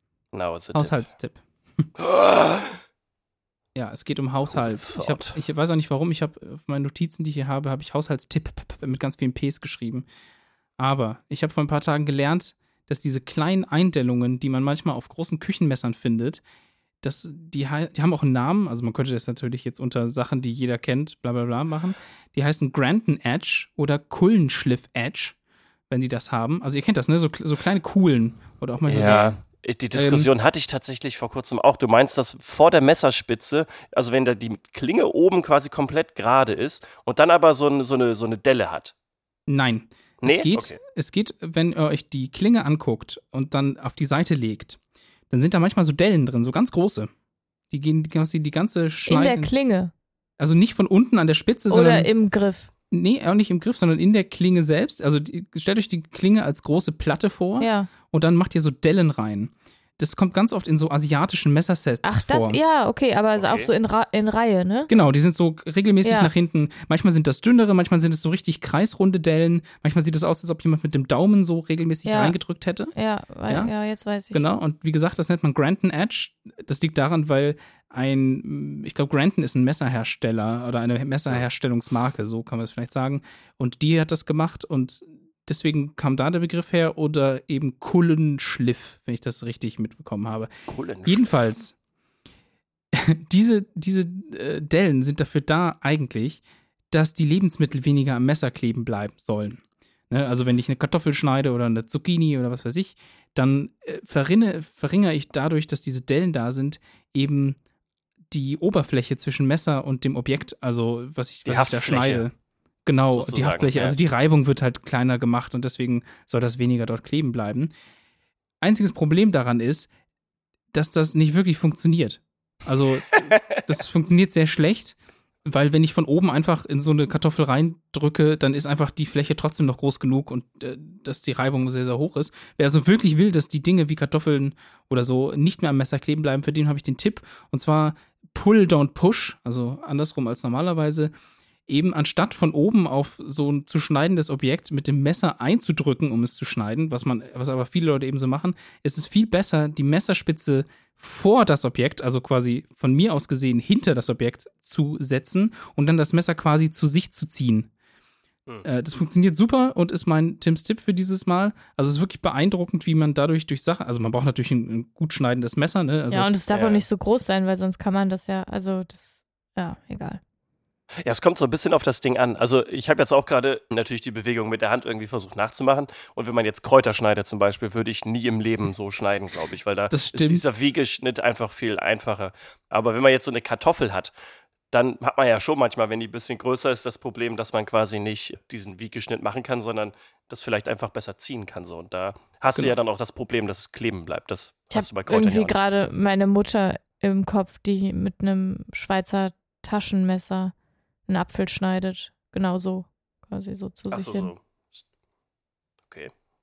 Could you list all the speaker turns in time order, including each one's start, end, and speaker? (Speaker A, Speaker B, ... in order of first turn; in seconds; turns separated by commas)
Speaker A: 0.3-1.0, Speaker B: 0.7-1.9, Speaker A: 2.0-2.8, Speaker B: 3.7-10.1, Speaker A: 4.5-5.4, Speaker B: 10.8-16.4, Speaker B: 17.0-25.4, Speaker B: 25.9-29.4, Speaker A: 28.8-38.9, Speaker B: 29.9-30.3, Speaker B: 39.5-47.1, Speaker A: 40.2-40.8, Speaker B: 47.7-49.5, Speaker C: 49.1-49.9, Speaker B: 50.4-52.1, Speaker C: 51.7-52.7, Speaker B: 52.9-62.6, Speaker C: 57.6-57.9, Speaker C: 62.0-64.9, Speaker A: 63.4-63.7, Speaker B: 64.9-72.9, Speaker C: 66.0-66.3, Speaker C: 72.0-72.3, Speaker C: 72.9-74.4, Speaker B: 74.3-90.5, Speaker A: 90.7-91.3, Speaker B: 91.0-91.8, Speaker B: 92.9-107.6, Speaker B: 108.3-112.3, Speaker A: 111.5-112.2, Speaker B: 112.8-117.7, Speaker A: 113.1-114.0, Speaker B: 118.6-119.9, Speaker B: 120.7-141.1, Speaker B: 141.7-157.7, Speaker B: 158.6-166.3, Speaker C: 166.1-170.2, Speaker A: 166.5-166.8, Speaker A: 171.0-184.1, Speaker B: 179.9-180.5, Speaker A: 184.7-195.6, Speaker C: 194.7-200.5, Speaker C: 201.1-204.3, Speaker A: 203.9-204.4